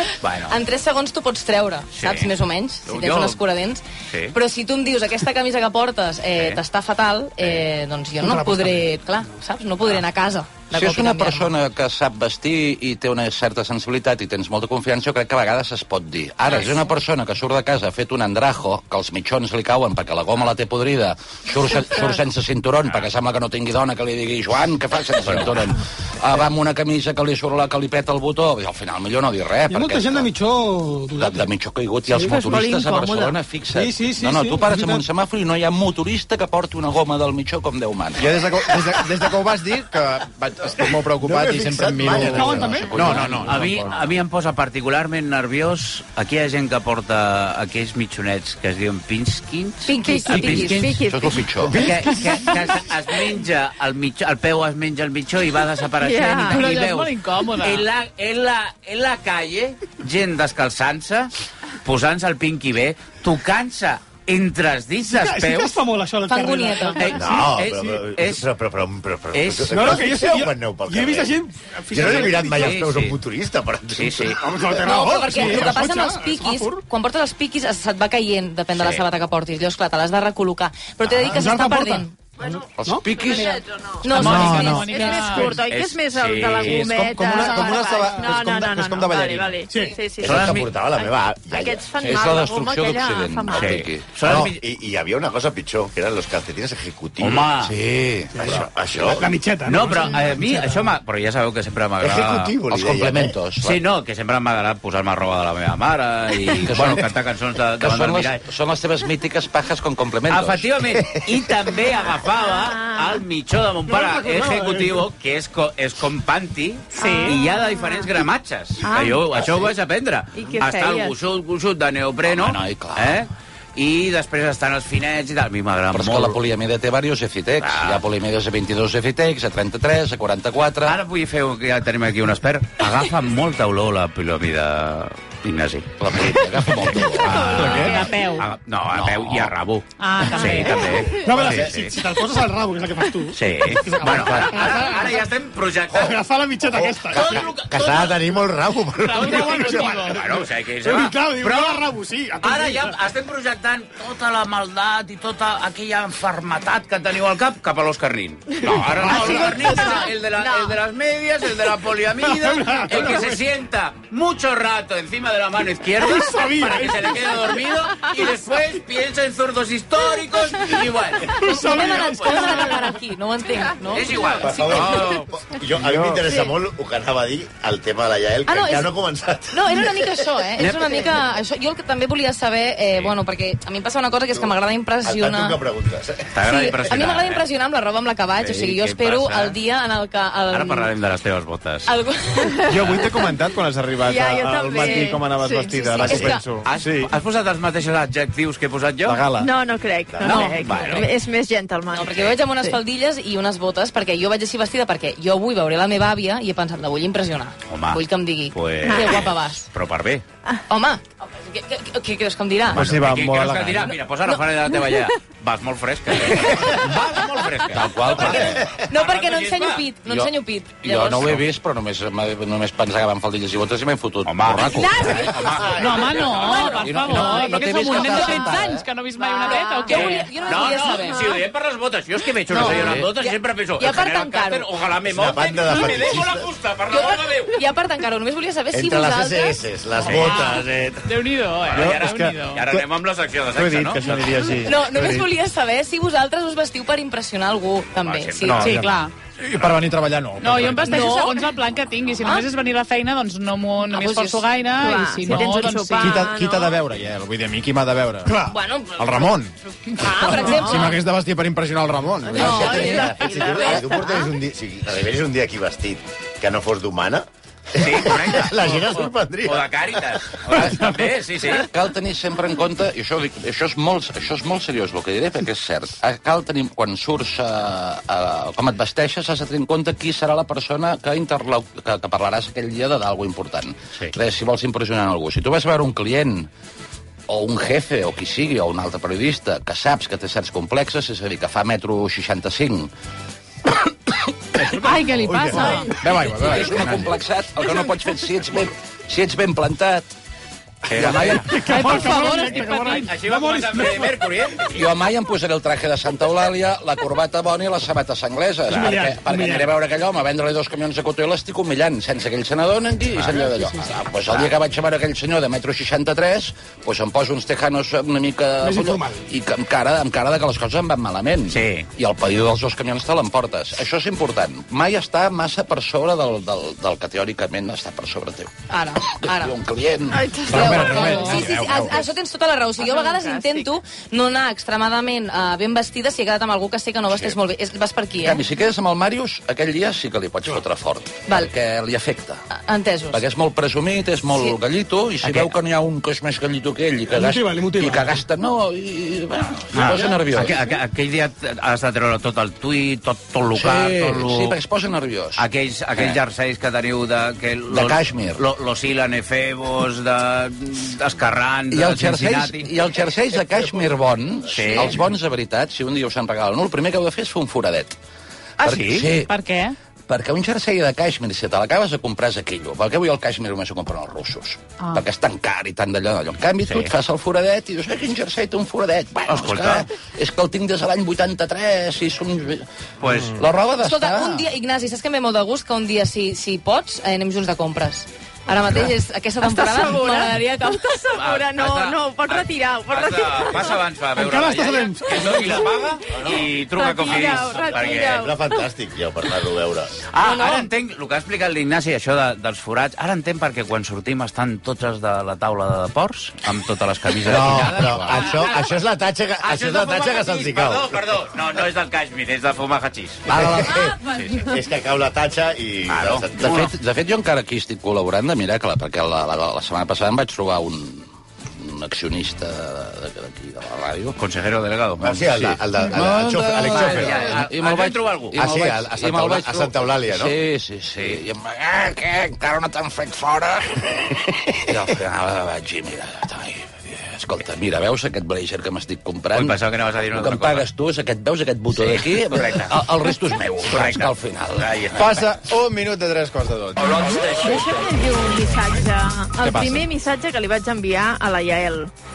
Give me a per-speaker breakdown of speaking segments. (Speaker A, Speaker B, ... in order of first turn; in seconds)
Speaker A: 0.2-0.6, 1.9-2.3, 2.9-3.4, 4.1-4.3, 6.3-6.6, 25.2-25.5, 43.1-51.0, 51.7-61.3, 61.8-65.8, 67.0-68.4, 69.3-70.0, 72.0-73.2, 73.9-74.4, 78.7-79.0, 85.1-87.0, 90.2-90.7, 93.5-94.6, 97.2-97.7, 99.6-102.5, 103.6-108.4, 110.3-126.4, 127.6-128.0, 130.8-142.0, 143.3-146.2, 147.1-148.3, 149.2-151.9, 152.4-172.8, 173.9-175.3, 180.6-181.1, 186.3-187.4, 188.4-189.6, 190.5-191.9, 196.6-199.3, 200.2-201.1, 207.7-210.2, 212.7-219.9, 224.2-228.1, 229.9-237.6, 240.0-240.8, 241.6-244.5, 248.0-248.8, 267.7-271.7, 300.9-304.8, 321.5-321.9, 345.2-345.5, 349.7-354.6, 355.4-362.8, 364.5-365.0, 368.6-369.1, 376.6-376.9, 379.3-379.9, 383.0-383.4, 391.1-398.3, 400.1-408.7, 409.4-413.2, 414.0-414.5, 415.9-416.6, 424.2-425.6, 426.6-428.4, 430.9-431.2, 439.3-440.7, 441.7-442.8, 443.6-445.2, 446.8-447.9
Speaker B: 0.5-11.5, 49.9-51.0, 66.3-67.1, 74.8-82.1, 84.0-85.5, 171.4-175.0, 178.5-178.9, 179.5-185.6, 186.4-190.9, 191.8-192.7, 196.0-196.4, 200.2-201.0, 201.9-209.7, 210.7-212.9, 218.2-221.4, 224.7-231.4, 232.5-234.7, 236.9-239.6, 244.6-248.8, 250.8-251.4, 253.9-254.4, 258.4-259.3, 260.0-261.0, 262.3-264.3, 328.7-329.5, 330.5-338.4, 342.5-343.2, 383.8-390.8, 400.2-400.7
Speaker C: 8.2-9.0, 29.7-31.5, 32.1-32.6, 33.7-35.0, 42.1-43.2, 65.0-67.4, 69.7-72.8, 74.4-76.8, 81.2-83.0, 87.4-88.2, 89.7-90.0, 98.3-100.9, 113.9-115.0, 141.2-145.2, 145.9-147.4, 149.2-152.9, 158.7-159.8, 162.2-163.4, 166.0-167.6, 171.5-172.4, 301.3-304.2, 308.7-309.7, 318.6-319.2, 347.1-348.2, 394.1-395.6
Speaker D: 10.7-30.3, 31.2-38.2, 51.0-52.1, 82.8-83.5, 92.0-94.1, 97.6-98.3, 102.7-103.8, 106.4-107.1, 107.8-110.8, 122.2-123.2, 125.9-131.0, 136.0-137.8, 138.9-139.5, 217.7-218.6, 220.8-225.5, 226.8-228.7, 232.6-233.1, 271.5-286.5, 287.3-292.9, 296.3-300.1, 300.9-301.6, 304.7-328.5, 329.1-330.3, 338.2-342.4, 343.1-350.6, 353.5-356.2, 357.7-358.4, 361.7-367.9, 368.6-369.3, 370.1-384.4, 416.4-424.2, 425.8-445.1
Speaker E: 32.4-33.3, 50.0-51.8, 56.0-56.6, 83.1-93.8, 112.4-113.2, 117.0-118.1, 118.8-119.6, 120.3-121.2, 159.2-160.8, 176.2-176.5, 194.0-196.2, 199.3-202.8, 208.8-209.2, 230.8-231.4, 254.7-256.8, 260.3-260.9, 262.4-264.2, 330.1-331.5, 332.8-333.7, 389.4-393.8, 396.1-398.7, 446.8-451.9
Speaker F: 38.2-44.0, 84.3-84.8, 86.6-89.6, 249.4-251.1, 255.3-258.4, 259.0-263.1, 295.4-297.1, 330.5-332.1, 445.0-447.0, 449.4-449.9
Speaker G: 41.2-43.6, 67.1-71.3, 71.9-74.4, 90.2-91.9, 94.2-97.5, 98.4-99.3, 102.0-103.3, 141.4-141.8, 146.7-150.2, 174.4-180.2, 184.3-186.3, 235.1-236.5, 238.7-240.9, 262.3-270.6, 397.9-400.0, 407.2-411.0, 413.3-416.7, 425.0-427.4, 428.3-430.3
Speaker H: 56.5-57.9, 84.0-85.6, 116.9-117.4, 137.4-138.5, 140.0-141.1, 149.1-150.0, 225.8-230.3, 240.1-242.7, 248.6-249.1, 250.4-256.3, 294.7-296.0, 301.6-303.1, 369.2-369.7
Speaker I: 175.8-176.2, 192.7-197.1, 199.0-199.5, 212.7-213.9, 241.7-242.9, 243.5-245.3, 248.4-248.8